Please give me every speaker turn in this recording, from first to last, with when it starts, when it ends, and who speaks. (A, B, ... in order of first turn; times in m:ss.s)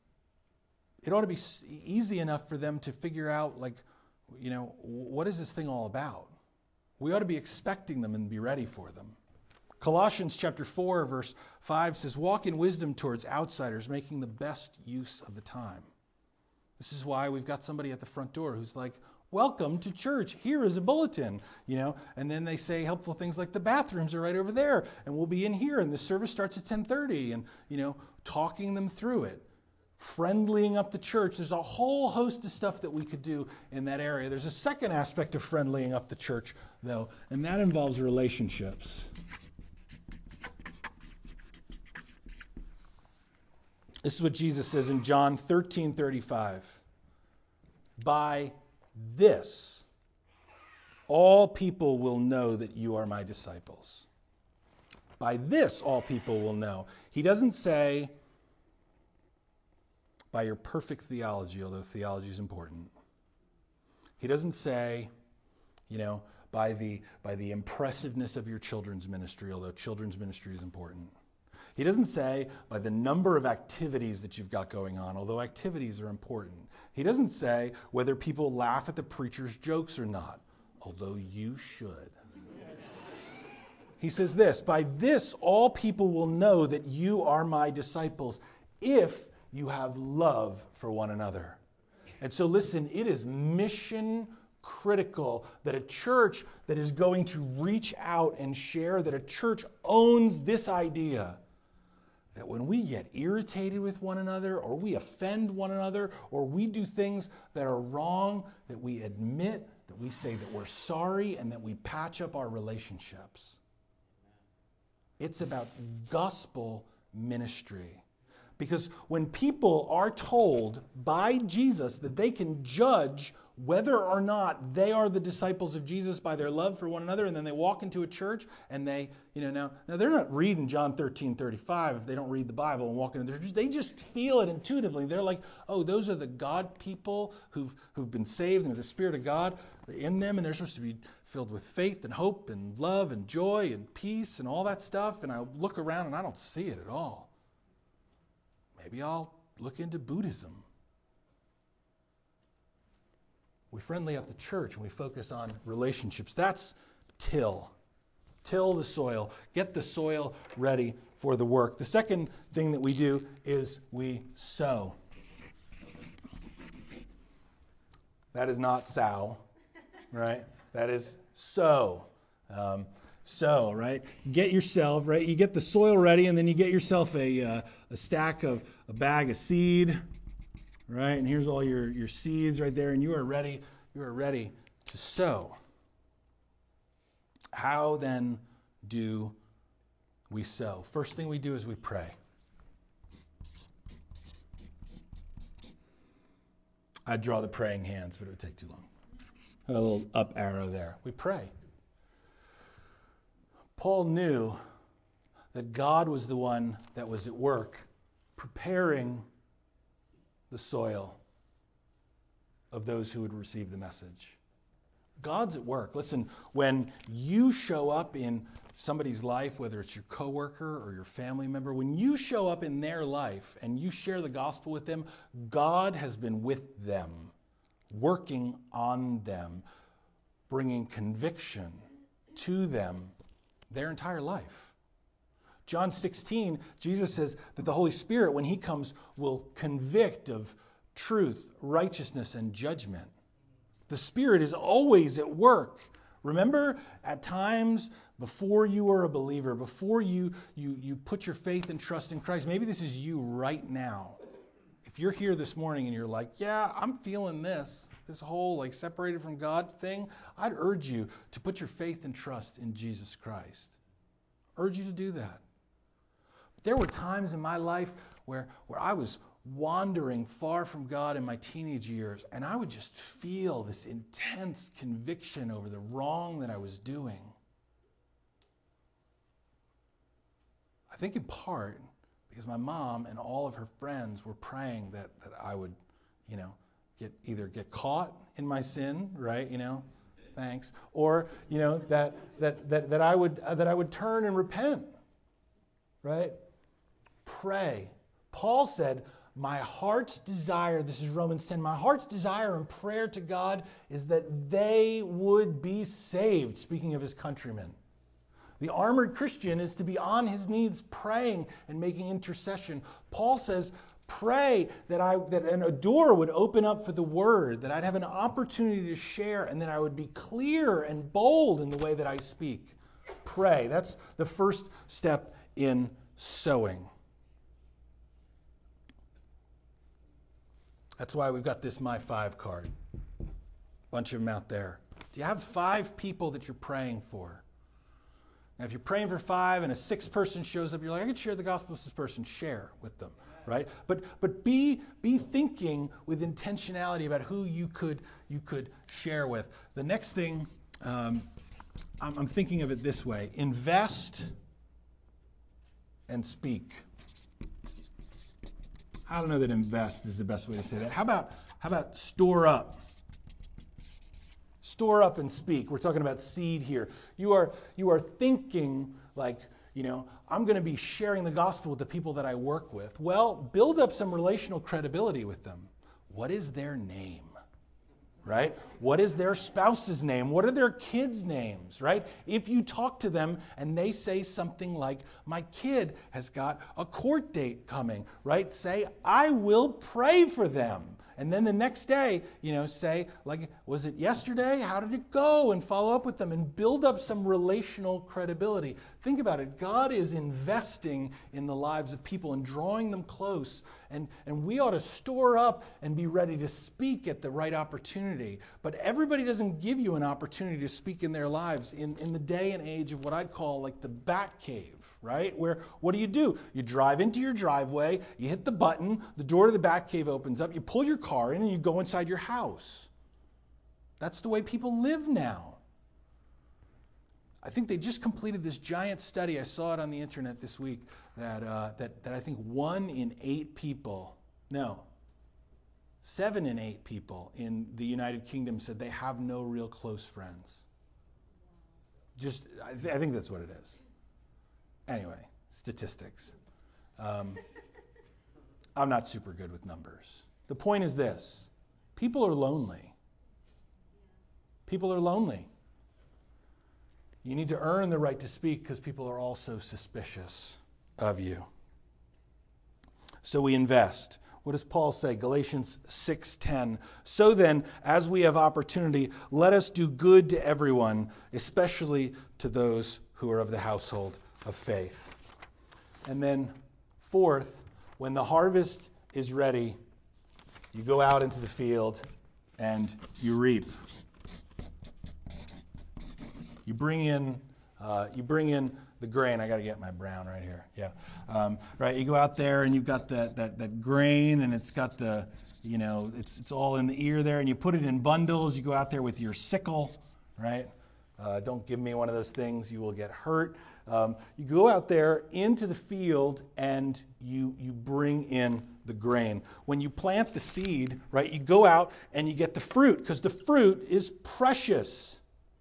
0:01.0-0:06.3 A
0:07.0-0:09.2 A
0:09.8-0:15.9 A
0:16.8-0:29.4 A
0:30.0-0:39.1 A
0:44.0-0:46.8 A
0:48.0-0:49.8 A
0:51.1-0:54.1 A
0:55.2-0:58.1 A
1:00.3-1:02.9 A
1:04.2-1:05.1 A
1:05.9-1:11.1 A
1:11.8-1:22.1 A
1:24.0-1:31.6 A
1:32.2-1:41.4 A
1:42.3-1:53.6 A
1:55.2-1:58.0 A
1:58.6-2:27.3 A
2:28.8-2:30.6 A
2:33.7-2:37.7 A
2:38.4-2:45.0 A
2:48.3-2:49.4 A
2:50.1-3:00.0 A
3:00.9-3:05.6 A
3:07.5-3:09.4 A
3:10.3-3:12.1 A
3:17.0-3:18.9 A
3:19.7-3:21.5 A
3:23.8-3:24.6 A
3:25.5-3:29.2 A
3:30.5-3:31.2 A
3:32.7-3:34.4 A
3:35.2-3:47.3 A
3:47.9-3:49.6 A
3:50.5-3:53.1 A
3:53.7-3:54.7 A
3:55.6-4:03.1 A
4:03.9-4:14.2 A
4:14.8-4:23.8 A
4:24.6-4:25.4 A
4:26.6-4:37.3 A
4:40.9-4:54.9 A
4:56.0-4:56.4 A
4:57.2-5:07.8 A
5:08.6-5:26.9 A
5:31.0-5:32.7 A
5:33.9-5:37.4 A
5:38.6-5:51.3 A
5:52.0-5:54.3 A
5:56.1-5:56.8 A
5:59.1-6:02.8 A
6:04.6-6:17.3 A
6:18.2-7:02.9 A
7:04.0-7:05.6 A
7:07.4-7:14.8 A
7:16.0-7:20.6 A
7:22.2-7:23.8 A
7:24.9-7:26.3 A
7:27.0-7:27.4 A
7:28.8-7:32.9 A
7:34.7-7:35.5 A
7:37.2-7:41.5 A
7:43.2-7:55.2 A
7:56.0-7:59.8 A
8:00.7-8:02.0 A
8:02.6-8:03.7 A
8:06.6-8:35.2 A